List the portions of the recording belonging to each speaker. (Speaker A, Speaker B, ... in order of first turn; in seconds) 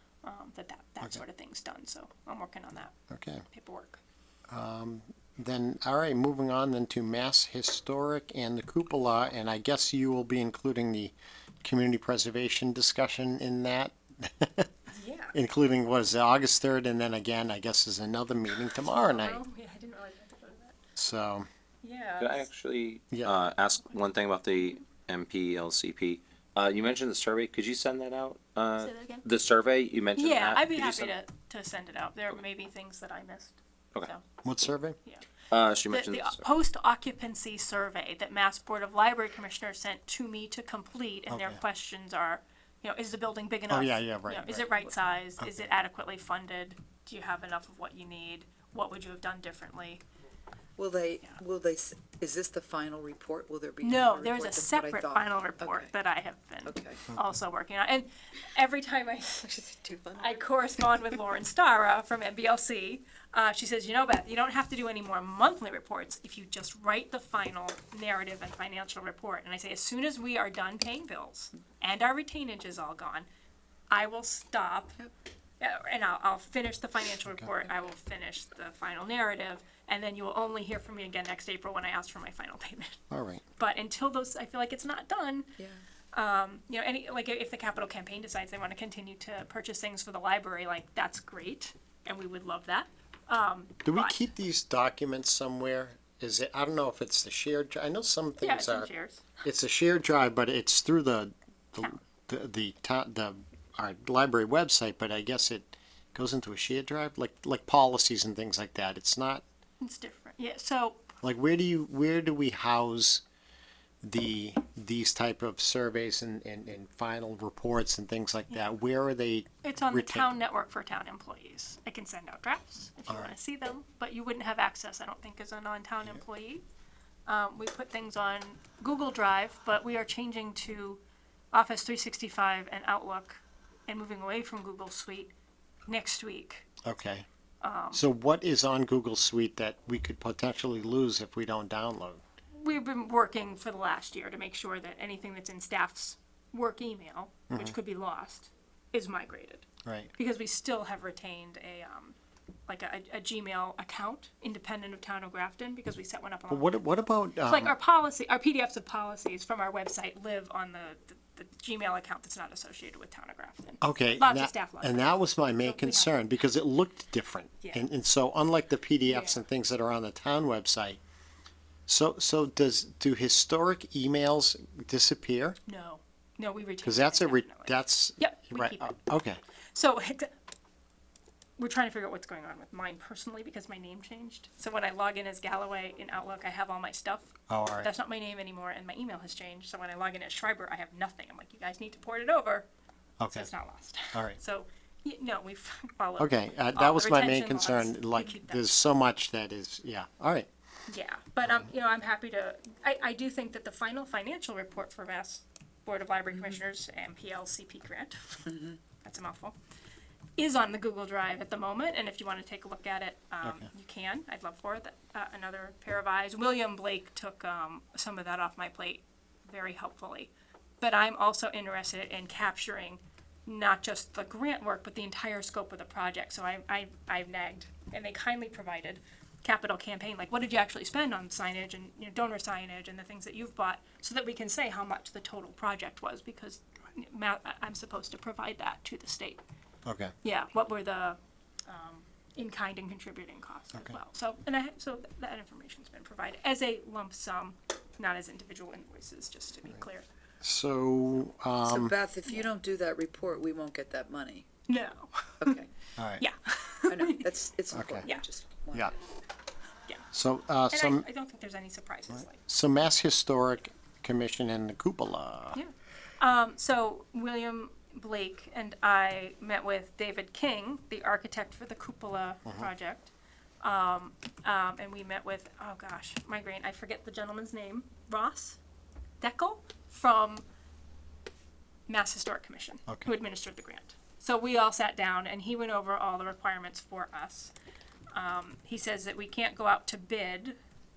Speaker A: 0.2-3.0, 3.5-4.0, 14.9-15.3, 18.9-20.8, 21.8-22.5, 28.8-29.3, 30.2-34.2, 35.9-50.0, 53.8-73.3, 73.9-75.0, 75.6-83.0, 83.6-85.6, 86.1-94.2, 98.4-99.3, 109.8-111.1, 119.6-126.7, 127.3-131.0, 131.5-135.3, 135.9-136.7, 137.6-138.0, 142.6-152.2, 152.7-156.8, 157.5-166.2, 169.1-169.4, 175.7-179.0, 179.7-180.3, 181.6-192.7, 193.3-198.8, 200.9-209.6, 210.4-239.4, 240.2-250.1, 254.7-255.6, 256.2-257.3, 260.7-262.4, 265.5-278.6, 279.2-280.4, 281.9-287.5, 288.1-290.6
Speaker B: 3.1-3.5, 4.5-14.7, 15.3-19.4, 21.0-21.5, 23.1-23.4, 34.4-35.0, 41.3-41.6, 43.7-45.7, 83.1-83.4, 93.8-98.9, 99.4-109.4, 111.2-113.2, 114.0-120.3, 123.1-123.3, 136.8-137.3, 137.9-142.2, 147.5-147.8, 149.8-150.1, 156.5-157.7, 163.8-171.0, 171.9-175.6, 176.8-179.4, 187.5-187.9, 193.2-193.5, 196.2-200.5, 201.4-201.7, 213.4-213.7, 239.8-240.1, 250.4-251.9, 256.0-256.2, 257.7-258.1, 260.1-261.1, 262.1-265.6
Speaker C: 22.2-31.1, 35.5-36.4
Speaker D: 50.8-55.9, 56.6-57.0, 59.5-60.5, 85.6-85.8, 251.7-254.5, 255.4-255.7, 256.9-258.9